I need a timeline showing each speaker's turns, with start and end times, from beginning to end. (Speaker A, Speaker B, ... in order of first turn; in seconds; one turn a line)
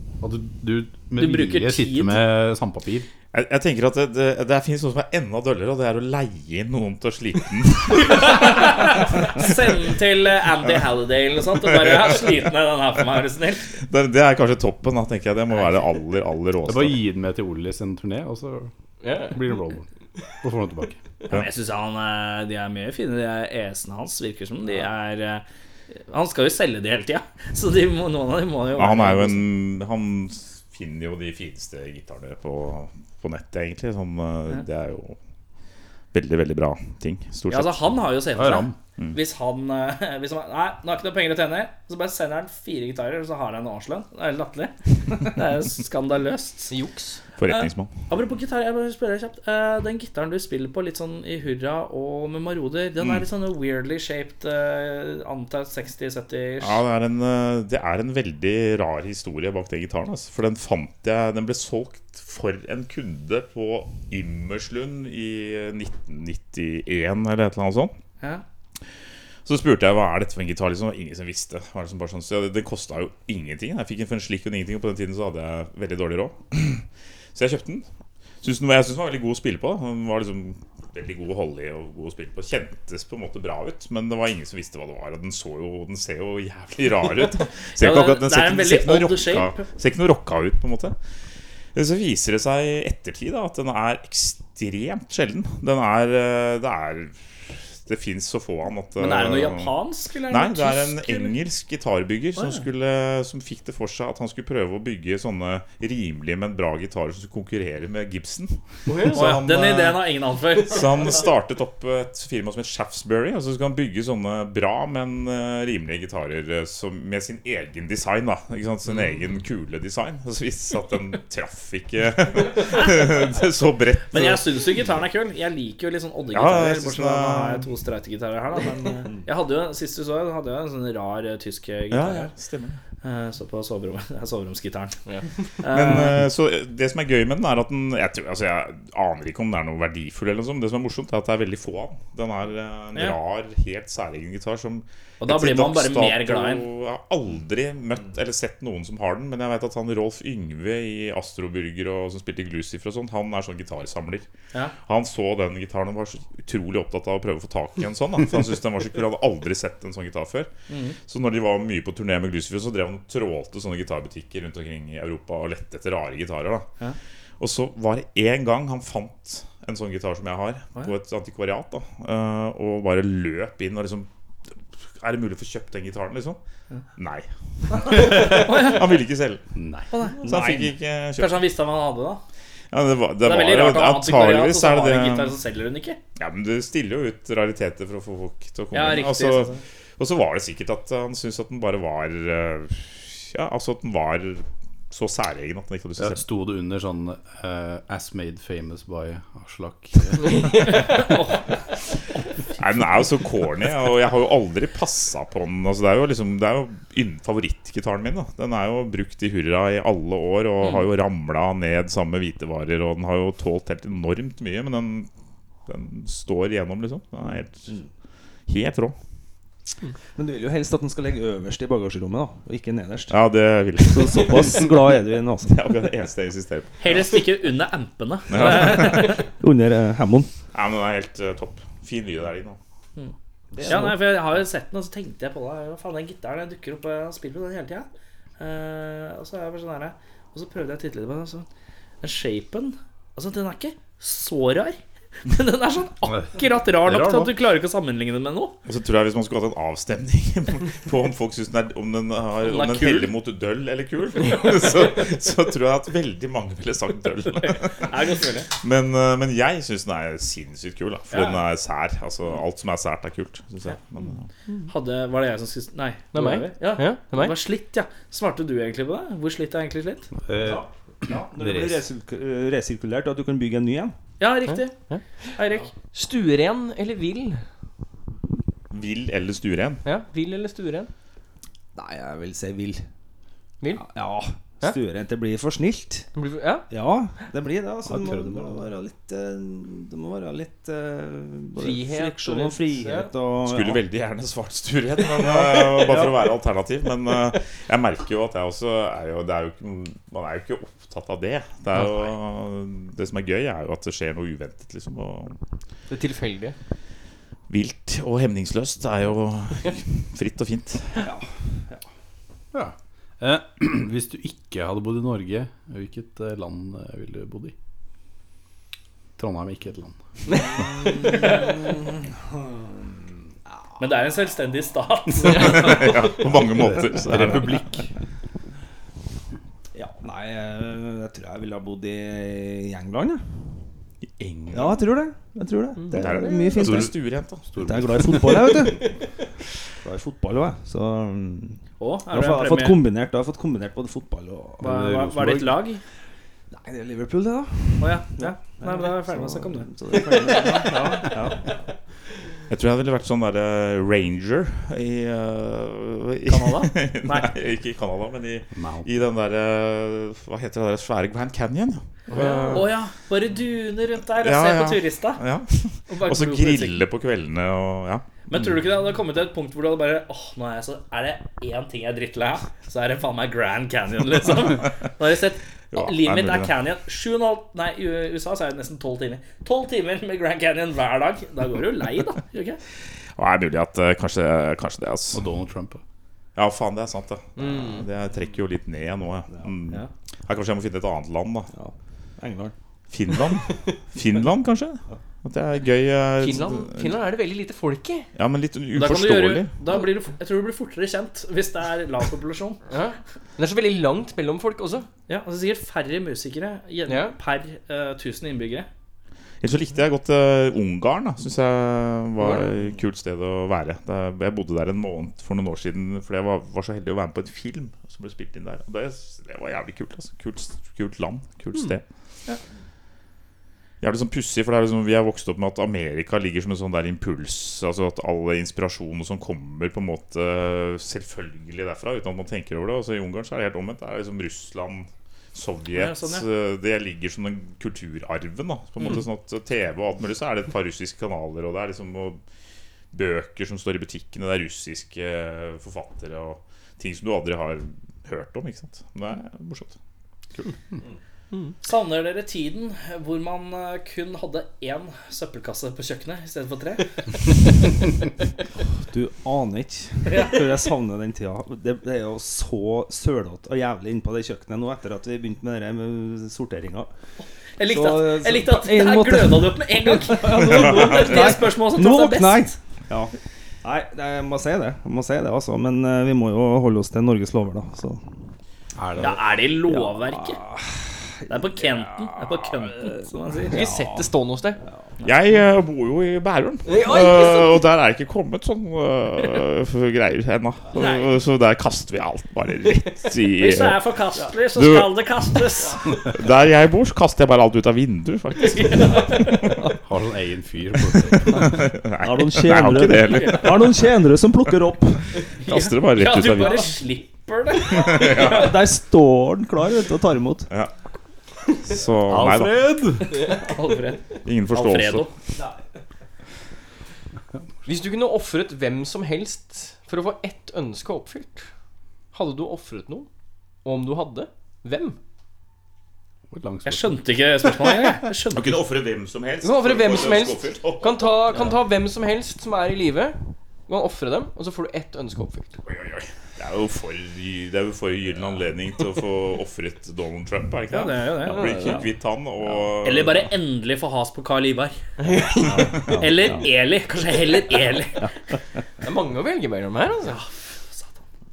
Speaker A: 0.2-3.1
Speaker B: 1.2-2.2
Speaker C: 3.3-9.6
Speaker B: 8.0-13.7
Speaker C: 11.6-12.3
Speaker C: 13.8-17.0
Speaker A: 16.6-18.7
Speaker D: 19.0-19.4
Speaker A: 19.2-19.9
Speaker A: 20.4-21.0
Speaker B: 21.3-29.5
Speaker C: 28.8-35.2
Speaker C: 36.1-38.0
Speaker B: 37.5-46.7
Speaker A: 38.4-38.8
Speaker D: 46.7-47.2
Speaker C: 47.4-47.9
Speaker B: 47.5-56.8
Speaker C: 56.6-67.9
Speaker C: 69.4-77.8
Speaker C: 78.4-90.9
Speaker B: 87.8-89.7
Speaker C: 91.7-99.8
Speaker B: 99.0-101.4
Speaker C: 100.3-110.0
Speaker B: 102.3-102.6
Speaker D: 108.9-109.3
Speaker B: 109.1-110.9
Speaker C: 110.6-124.5
Speaker B: 122.8-123.1
Speaker B: 124.1-132.3
Speaker C: 126.3-127.7
Speaker C: 131.9-132.8
Speaker B: 133.0-135.0
Speaker B: 135.6-136.2
Speaker C: 135.7-154.2
Speaker B: 145.2-146.6
Speaker C: 154.8-160.5
Speaker B: 160.7-161.0
Speaker C: 161.0-166.7
Speaker C: 167.4-174.1
Speaker C: 175.0-176.4
Speaker C: 177.0-179.4
Speaker B: 177.8-178.8
Speaker A: 179.6-179.9
Speaker B: 179.9-182.2
Speaker C: 180.2-181.4
Speaker E: 180.2-180.6
Speaker C: 182.7-185.4
Speaker B: 183.2-186.0
Speaker C: 186.2-196.2
Speaker B: 188.7-189.6
Speaker A: 196.0-201.1
Speaker B: 201.0-201.4
Speaker C: 202.6-215.1
Speaker C: 215.7-217.8
Speaker C: 218.5-218.9
Speaker E: 220.2-223.2
Speaker C: 223.1-224.8
Speaker E: 223.8-225.6
Speaker C: 225.4-227.1
Speaker B: 226.8-229.2
Speaker C: 228.3-229.1
Speaker E: 229.4-230.3
Speaker C: 230.5-232.6
Speaker E: 233.5-234.0
Speaker B: 233.7-237.9
Speaker B: 238.4-241.5
Speaker B: 242.0-248.6
Speaker A: 246.1-247.3
Speaker C: 248.7-257.9
Speaker B: 252.4-253.1
Speaker B: 257.4-258.5
Speaker C: 258.5-264.3
Speaker B: 261.1-261.4
Speaker B: 264.7-270.1
Speaker D: 266.1-267.3
Speaker A: 270.3-271.8
Speaker E: 270.4-273.9
Speaker B: 274.2-274.8
Speaker D: 274.7-275.2
Speaker B: 275.3-275.7
Speaker D: 275.9-277.4
Speaker C: 278.7-279.8
Speaker D: 279.8-280.9
Speaker E: 281.7-282.8
Speaker D: 283.6-283.9
Speaker E: 283.7-286.1
Speaker D: 286.1-286.7
Speaker E: 286.7-293.8
Speaker A: 287.9-288.7
Speaker D: 291.6-293.1
Speaker C: 293.4-305.4
Speaker E: 295.5-296.1
Speaker D: 305.9-306.6
Speaker C: 307.5-311.1
Speaker E: 311.0-311.8
Speaker A: 312.5-317.5
Speaker A: 319.2-320.4
Speaker E: 320.6-322.9
Speaker B: 321.2-321.5
Speaker B: 323.8-326.2
Speaker C: 325.3-327.6
Speaker A: 326.8-327.9
Speaker E: 329.7-333.2
Speaker C: 334.2-334.9
Speaker E: 334.5-336.9
Speaker C: 335.9-337.6
Speaker A: 336.6-338.6
Speaker E: 337.6-338.9
Speaker E: 339.8-344.7
Speaker B: 341.8-342.8
Speaker A: 344.6-345.6
Speaker B: 344.6-345.8
Speaker E: 346.5-351.5
Speaker B: 347.8-349.7
Speaker C: 352.5-362.7
Speaker B: 356.3-357.3
Speaker A: 358.5-358.9
Speaker D: 362.1-362.6
Speaker B: 362.5-365.2
Speaker C: 364.1-368.0
Speaker B: 365.9-366.8
Speaker B: 368.3-382.6
Speaker C: 375.7-376.5
Speaker C: 383.1-385.2
Speaker A: 385.1-385.8
Speaker C: 386.4-391.5
Speaker D: 387.4-387.9
Speaker E: 391.5-392.5
Speaker C: 392.9-397.0
Speaker D: 396.2-398.1
Speaker C: 398.1-399.5
Speaker B: 398.7-402.6
Speaker D: 402.7-404.9
Speaker B: 405.1-408.7
Speaker D: 406.9-407.1
Speaker C: 409.4-421.8
Speaker C: 423.8-442.2
Speaker B: 435.7-436.3
Speaker C: 442.9-449.8
Speaker B: 451.6-456.9
Speaker E: 458.8-466.9
Speaker B: 460.1-460.4
Speaker B: 467.6-472.6
Speaker E: 467.6-478.1
Speaker A: 478.8-479.2
Speaker B: 479.0-480.4
Speaker E: 479.7-484.8
Speaker B: 481.3-483.6
Speaker D: 483.5-484.6
Speaker C: 485.0-493.8
Speaker D: 486.6-487.6
Speaker B: 490.8-491.1
Speaker B: 493.4-495.9
Speaker C: 494.5-495.4
Speaker C: 496.0-499.7
Speaker B: 498.4-499.5
Speaker A: 499.8-501.6
Speaker C: 500.9-503.9
Speaker E: 502.0-505.1
Speaker B: 503.1-503.4
Speaker B: 505.4-508.5
Speaker C: 505.4-506.7
Speaker C: 507.7-508.6
Speaker E: 508.0-510.5
Speaker C: 511.6-512.7
Speaker A: 512.1-513.2
Speaker D: 513.2-513.4
Speaker B: 513.3-515.1
Speaker C: 514.2-515.1
Speaker D: 517.6-521.5
Speaker D: 522.1-523.1
Speaker D: 523.6-525.0
Speaker A: 526.3-527.0
Speaker B: 526.6-528.6
Speaker C: 528.3-531.5
Speaker D: 529.4-535.6
Speaker C: 535.6-543.3
Speaker B: 540.7-541.5
Speaker D: 541.3-541.8
Speaker B: 542.8-544.8
Speaker D: 545.0-545.8
Speaker E: 545.4-546.5
Speaker B: 546.0-548.1
Speaker D: 548.8-550.2
Speaker B: 550.0-551.0